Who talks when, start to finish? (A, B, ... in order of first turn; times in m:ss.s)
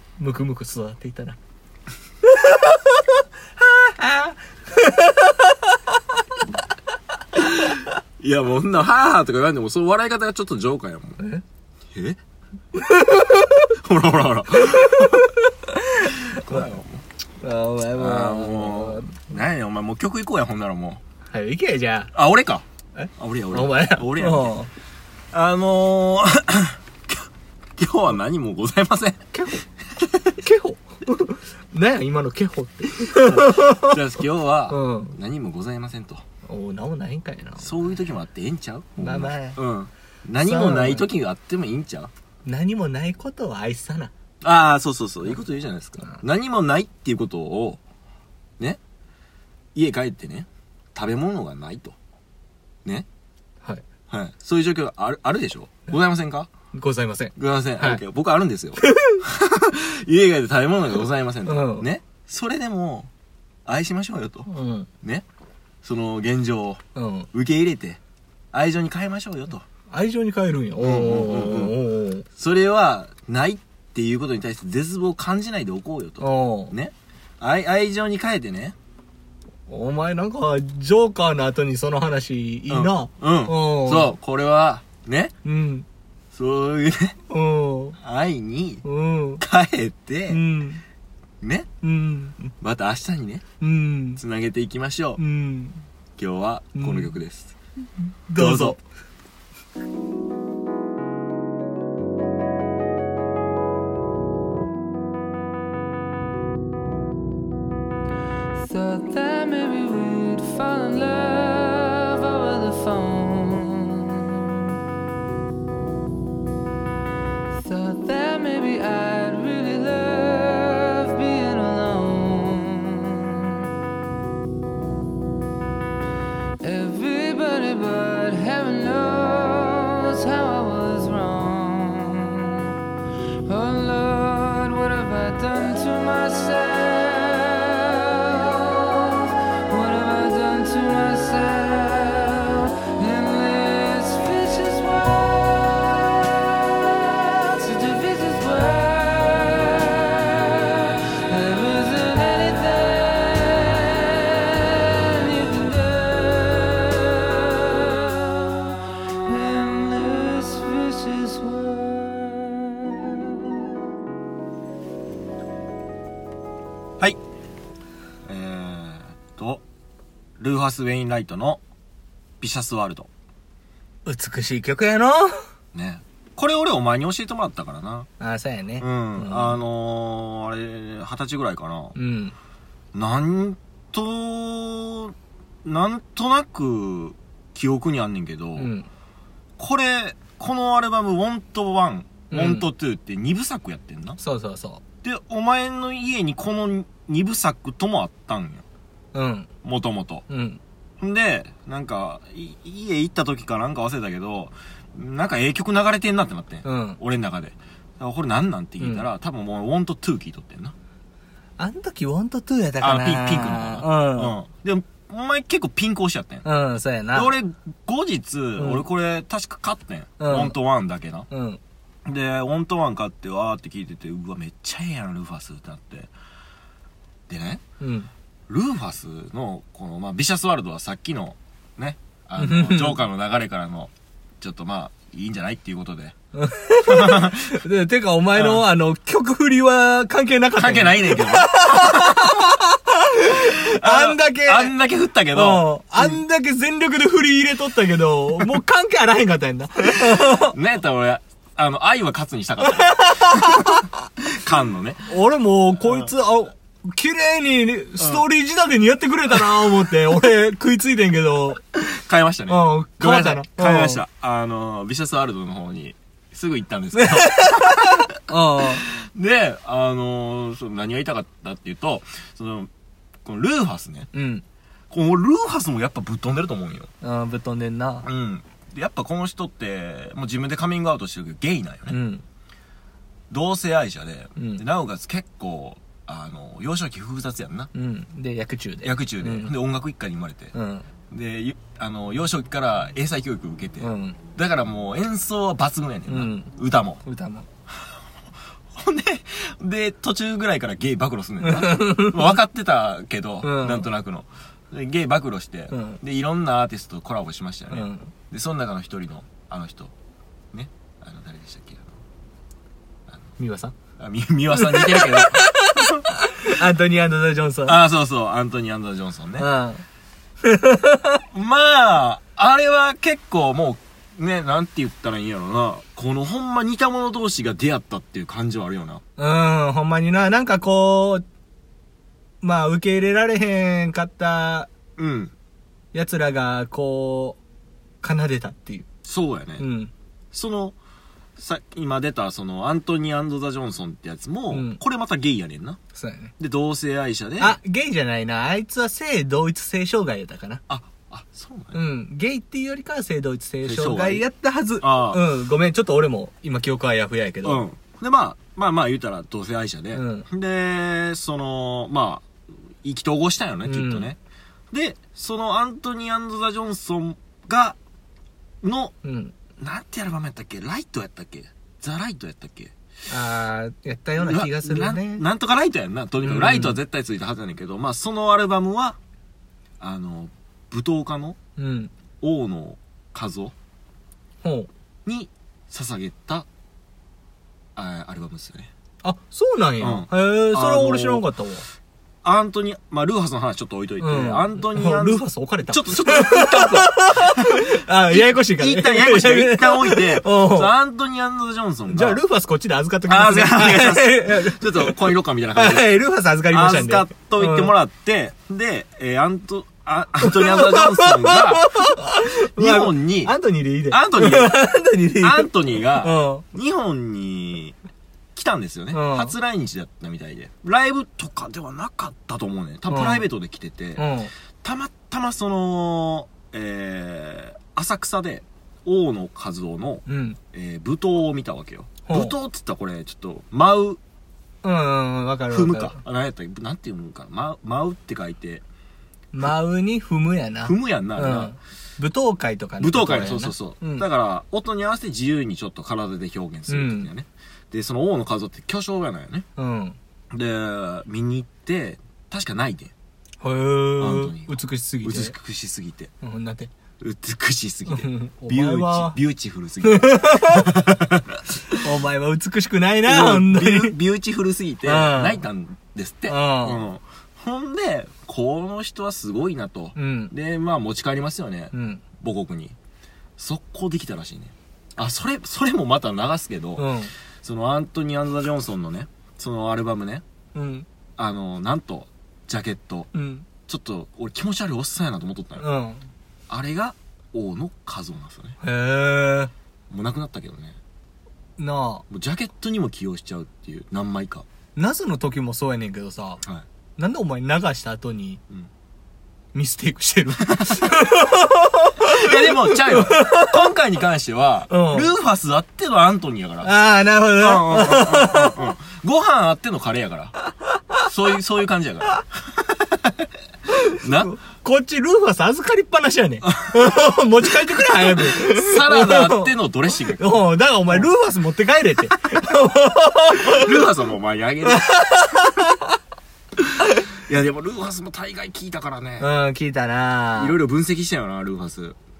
0:00.2-0:01.4 A
0:02.2-0:05.7 A
0:07.4-0:11.2 B
0:11.9-0:12.2 B
0:12.7-0:13.7 A
0:13.7-0:15.3 B
0:14.5-0:16.7 A
0:16.2-0:17.0 B
0:17.4-0:19.4 A
0:18.0-0:21.0 B
0:21.3-0:22.1 A
0:22.1-0:22.6 B
0:22.9-0:24.7 A
0:23.2-0:24.5 B
0:25.3-0:27.2 B
0:27.8-0:29.2 B
0:29.3-0:29.6 A
0:30.0-0:30.4 B
0:30.4-0:34.0 A
0:33.0-0:36.2 B
0:34.7-0:35.2 A
0:36.4-0:38.0 A
0:37.6-0:42.1 B
0:39.0-0:39.6 A
0:40.4-0:41.1 A
0:42.4-0:44.1 A
0:44.4-0:47.8 B
0:49.7-0:52.0 B
0:54.1-0:56.5 B
0:56.7-0:58.0 A
0:57.4-1:03.1 B
0:58.8-0:59.2 A
1:01.4-1:01.9 A
1:03.6-1:04.5 B
1:04.5-1:04.9 A
1:05.8-1:06.8 B
1:06.9-1:07.3 A
1:07.3-1:08.0 B
1:08.5-1:09.6 B
1:09.9-1:12.2 A
1:10.8-1:11.8 B
1:12.4-1:18.8 B
1:16.2-1:16.7 A
1:19.7-1:24.1 A
1:22.7-1:25.3 B
1:25.4-1:25.8 A
1:26.3-1:27.2 B
1:27.3-1:28.0 A
1:28.0-1:28.8 B
1:28.8-1:29.4 A
1:29.4-1:30.4 B
1:30.3-1:30.8 A
1:31.4-1:31.7 B
1:31.8-1:32.5 A
1:32.6-1:33.4 B
1:33.6-1:34.2 A
1:34.2-1:35.2 B
1:35.2-1:35.8 A
1:36.2-1:37.5 B
1:36.8-1:37.1 A
1:38.3-1:38.8 A
1:38.4-1:38.8 B
1:48.5-1:54.8 C
1:57.5-2:03.7 C
2:06.6-2:12.8 C
2:13.4-2:43.5 C
2:48.2-2:49.6 B
2:50.4-2:51.6 B
2:52.4-2:53.1 B
2:54.0-2:55.4 A
2:55.7-2:58.1 B
2:58.2-2:59.6 A
2:58.8-3:02.0 B
3:02.0-3:02.3 A
3:02.9-3:08.7 B
3:08.6-3:08.9 A
3:09.6-3:14.2 B
3:12.3-3:12.7 A
3:14.2-3:14.8 A
3:15.0-3:18.6 B
3:19.1-3:19.5 A
3:19.6-3:20.2 B
3:20.3-3:20.6 A
3:21.0-3:30.8 B
3:26.6-3:27.0 A
3:28.8-3:29.1 A
3:31.6-3:34.3 A
3:32.8-3:36.4 B
3:36.4-3:37.3 A
3:37.1-3:41.3 B
3:38.6-3:38.8 A
3:40.2-3:40.6 A
3:41.3-3:41.6 A
3:42.0-3:46.1 B
3:47.3-3:47.6 B
3:47.8-3:48.1 A
3:48.5-3:56.1 B
3:52.4-3:53.0 A
3:56.3-4:04.7 A
3:56.8-3:57.6 B
3:58.3-3:58.6 B
4:00.6-4:02.5 B
4:03.3-4:06.2 B
4:05.3-4:10.5 A
4:10.0-4:15.1 B
4:12.6-4:13.9 A
4:15.1-4:21.6 A
4:15.8-4:16.1 B
4:18.0-4:18.2 B
4:19.4-4:19.6 B
4:21.7-4:28.1 B
4:22.5-4:24.0 A
4:26.9-4:28.9 A
4:28.6-4:32.7 B
4:33.2-4:34.1 B
4:34.1-4:34.4 A
4:34.9-4:36.9 B
4:37.0-4:38.1 A
4:38.0-4:42.0 B
4:41.9-4:42.2 A
4:43.3-4:47.7 B
4:44.4-4:44.6 A
4:47.7-4:49.5 A
4:48.8-4:50.5 B
4:50.5-4:50.9 A
4:51.1-4:57.0 B
4:53.8-4:54.2 A
4:56.1-4:56.5 A
4:57.0-4:57.5 A
4:58.7-5:09.9 B
5:01.4-5:02.4 A
5:03.4-5:03.8 A
5:05.7-5:06.0 A
5:07.7-5:08.1 A
5:10.5-5:12.0 B
5:13.4-5:13.7 A
5:14.0-5:16.0 B
5:14.5-5:17.8 A
5:17.6-5:19.5 B
5:19.4-5:19.8 A
5:20.4-5:21.2 A
5:21.3-5:29.0 B
5:29.2-5:31.2 A
5:32.4-5:34.7 A
5:35.0-5:35.3 B
5:35.9-5:37.4 A
5:38.0-5:38.9 A
5:39.0-5:39.6 B
5:39.6-5:39.9 A
5:40.3-5:40.8 B
5:41.4-5:45.8 B
5:44.5-5:44.8 A
5:45.9-5:46.3 A
5:46.4-5:47.6 B
5:47.4-5:50.6 A
5:50.7-5:51.8 B
5:51.7-5:57.6 A
5:53.6-5:54.2 B
5:54.8-5:55.2 B
5:57.4-6:02.3 B
5:59.9-6:00.3 A
6:02.8-6:04.2 B
6:03.6-6:04.1 A
6:04.7-6:07.8 B
6:08.6-6:08.9 B
6:09.0-6:09.3 A
6:09.6-6:12.7 B
6:13.1-6:15.2 A
6:14.2-6:19.0 B
6:16.2-6:16.8 A
6:19.8-6:21.4 B
6:21.6-6:21.9 A
6:22.2-6:23.5 B
6:24.4-6:24.7 A
6:25.0-6:26.5 B
6:27.7-6:28.7 B
6:29.0-6:31.6 A
6:29.8-6:31.2 B
6:32.2-6:42.2 B
6:34.0-6:40.7 A
6:41.9-6:47.7 A
6:43.1-6:45.9 B
6:46.5-6:53.3 B
6:50.2-6:56.4 A
6:53.9-6:54.6 B
6:55.2-6:57.8 B
6:58.3-7:04.1 B
6:58.9-6:59.3 A
7:02.9-7:03.3 A
7:04.0-7:04.3 A
7:04.6-7:14.0 B
7:10.0-7:10.4 A
7:12.0-7:12.3 A
7:14.6-7:16.0 A
7:15.5-7:18.6 B
7:19.3-7:24.0 A
7:20.6-7:21.6 B
7:22.8-7:29.4 B
7:26.7-7:27.1 A
7:29.6-7:30.0 A
7:30.3-7:32.9 B
7:33.4-7:35.3 A
7:34.0-7:36.1 B
7:36.2-7:36.7 A
7:37.0-7:41.7 B
7:37.9-7:39.2 A
7:39.8-7:40.7 A
7:41.8-7:44.0 A
7:43.0-7:52.8 B
7:44.8-7:45.4 A
7:46.2-7:46.8 A
7:50.0-7:50.3 A
7:51.7-7:52.0 A
7:53.4-7:56.9 B
7:56.8-7:57.1 A
7:57.4-8:00.2 B
8:00.5-8:00.8 A
8:01.2-8:03.1 B
8:03.1-8:03.5 A
8:03.6-8:05.6 B
8:05.6-8:06.1 A
8:06.5-8:08.6 B
8:08.6-8:09.5 A
8:09.9-8:10.8 B
8:11.6-8:12.0 A
8:12.1-8:14.4 B
8:14.8-8:16.4 A
8:17.0-8:18.4 A
8:19.5-8:23.6 A
8:20.4-8:21.0 B
8:22.0-8:26.7 B
8:24.7-8:25.1 A
8:26.6-8:28.7 A
8:27.3-8:30.3 B
8:31.0-8:33.3 B
8:33.7-8:39.5 A
8:34.0-8:34.3 B
8:36.5-8:41.0 B
8:40.2-8:43.8 A
8:43.3-8:45.0 B
8:44.6-8:46.0 A
8:47.2-8:49.3 B
8:49.2-8:50.6 A
8:50.4-8:52.0 B